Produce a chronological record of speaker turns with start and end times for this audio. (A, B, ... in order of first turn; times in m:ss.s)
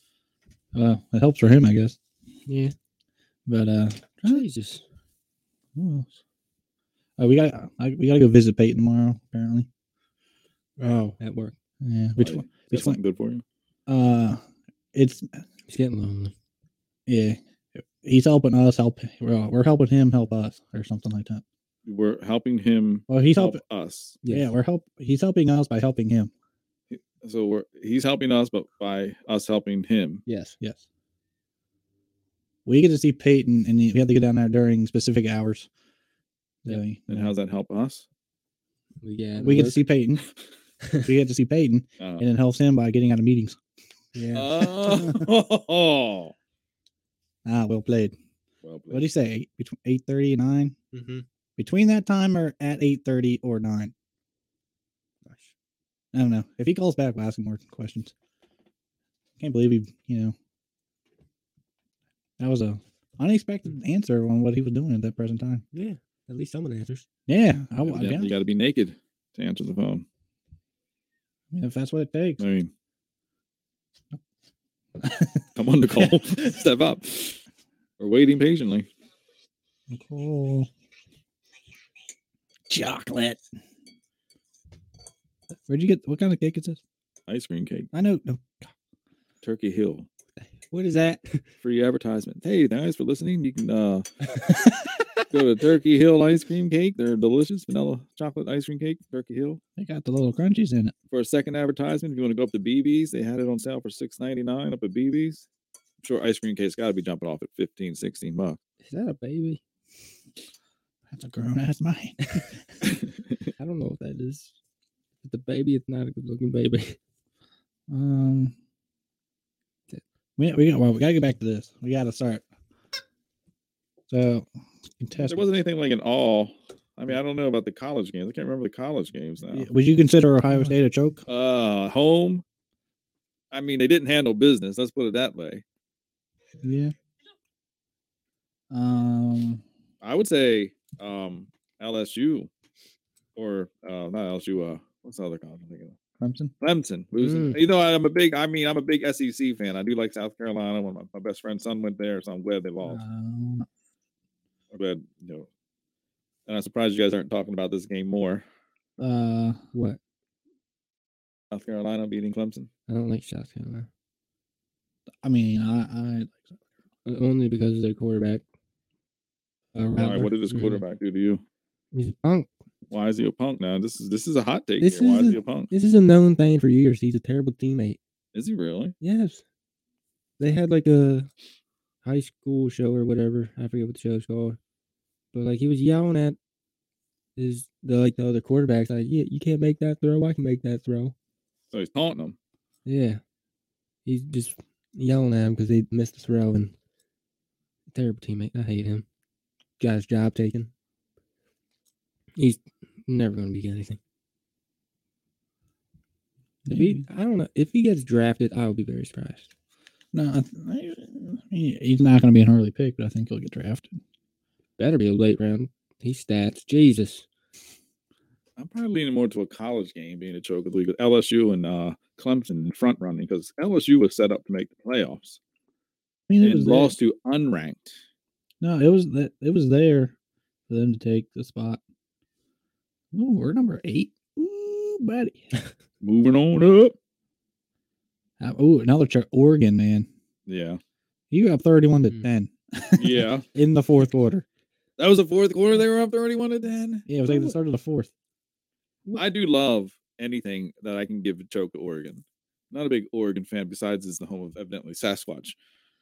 0:00.7-0:02.0 A
0:02.5-0:02.7 B
0:03.5-0:04.4 A
0:04.2-0:04.8 B
0:05.8-0:06.1 A
0:07.2-0:09.7 A
0:10.8-0:11.6 B
0:11.8-0:13.0 A
0:12.2-0:13.4 C
0:13.9-0:14.4 A
0:14.9-0:15.4 A
0:15.7-0:16.3 B
0:17.1-0:21.4 A
0:21.9-0:24.2 C
0:23.1-0:23.6 A
0:24.2-0:24.5 B
0:24.3-0:26.3 A
0:26.9-0:30.2 C
0:30.3-0:30.6 B
0:32.7-0:35.7 A
0:36.6-0:37.3 A
0:37.1-0:38.0 C
0:39.0-0:39.8 B
0:39.4-0:40.3 A
0:41.0-0:43.6 A
0:44.2-0:44.7 B
0:44.3-0:46.3 C
0:44.8-0:45.3 A
0:47.4-0:48.2 A
0:48.6-0:49.1 C
0:48.9-0:50.8 A
0:50.9-0:51.2 B
0:51.6-0:53.9 A
0:55.2-0:55.5 B
0:56.1-0:58.1 A
0:59.4-1:00.4 A
1:02.4-1:05.6 A
1:05.7-1:07.1 B
1:07.3-1:08.3 A
1:07.9-1:10.0 C
1:11.5-1:12.4 A
1:12.4-1:12.7 C
1:15.0-1:16.2 A
1:15.6-1:17.4 C
1:18.0-1:18.9 C
1:19.9-1:20.7 A
1:22.7-1:23.4 A
1:25.7-1:26.8 A
1:27.3-1:27.9 C
1:27.9-1:28.7 A
1:29.4-1:30.1 C
1:30.7-1:31.4 B
1:31.6-1:34.1 C
1:35.3-1:39.6 C
1:39.8-1:40.9 A
1:41.1-1:45.5 C
1:46.0-1:48.6 C
1:48.8-1:49.6 B
1:51.1-1:52.4 A
1:53.6-1:54.5 B
1:55.2-1:57.0 B
1:57.9-1:58.6 A
2:00.4-2:02.4 A
2:04.1-2:04.5 A
2:05.0-2:05.4 A
2:05.2-2:09.7 C
2:09.5-2:11.2 A
2:11.3-2:12.4 C
2:13.5-2:15.6 C
2:16.6-2:16.9 A
2:18.7-2:19.6 A
2:20.0-2:22.5 C
2:23.4-2:26.0 C
2:26.2-2:26.5 A
2:26.6-2:33.0 C
2:27.2-2:27.6 B
2:32.8-2:33.7 A
2:34.7-2:35.5 C
2:36.5-2:38.4 C
2:39.0-2:39.6 A
2:39.7-2:40.0 B
2:41.5-2:42.7 C
2:42.9-2:43.9 B
2:45.2-2:46.6 A
2:47.0-2:48.4 B
2:49.8-2:50.3 A
2:50.0-2:51.4 C
2:50.5-2:50.8 B
2:51.9-2:52.5 B
2:52.9-2:55.7 C
2:54.8-2:58.0 B
2:58.3-2:58.9 C
2:59.0-2:59.4 B
3:00.4-3:01.3 B
3:02.0-3:04.6 B
3:05.3-3:06.4 B
3:07.4-3:11.1 B
3:11.7-3:12.4 C
3:12.9-3:13.2 B
3:14.1-3:16.7 B
3:17.9-3:19.0 B
3:19.8-3:20.7 B
3:22.4-3:24.0 B
3:26.7-3:27.0 A
3:26.7-3:29.5 B
3:30.1-3:34.0 A
3:34.8-3:37.3 B
3:38.6-3:45.4 C
3:46.3-3:47.0 A
3:46.4-3:48.0 C
3:48.6-3:50.1 A
3:50.7-3:51.8 A
3:53.1-3:55.4 A
3:56.0-3:57.0 C
3:58.4-4:00.1 A
4:00.5-4:00.8 C
4:01.3-4:04.4 A
4:03.0-4:03.5 C
4:05.0-4:07.1 C
4:07.1-4:08.1 A
4:09.1-4:15.6 C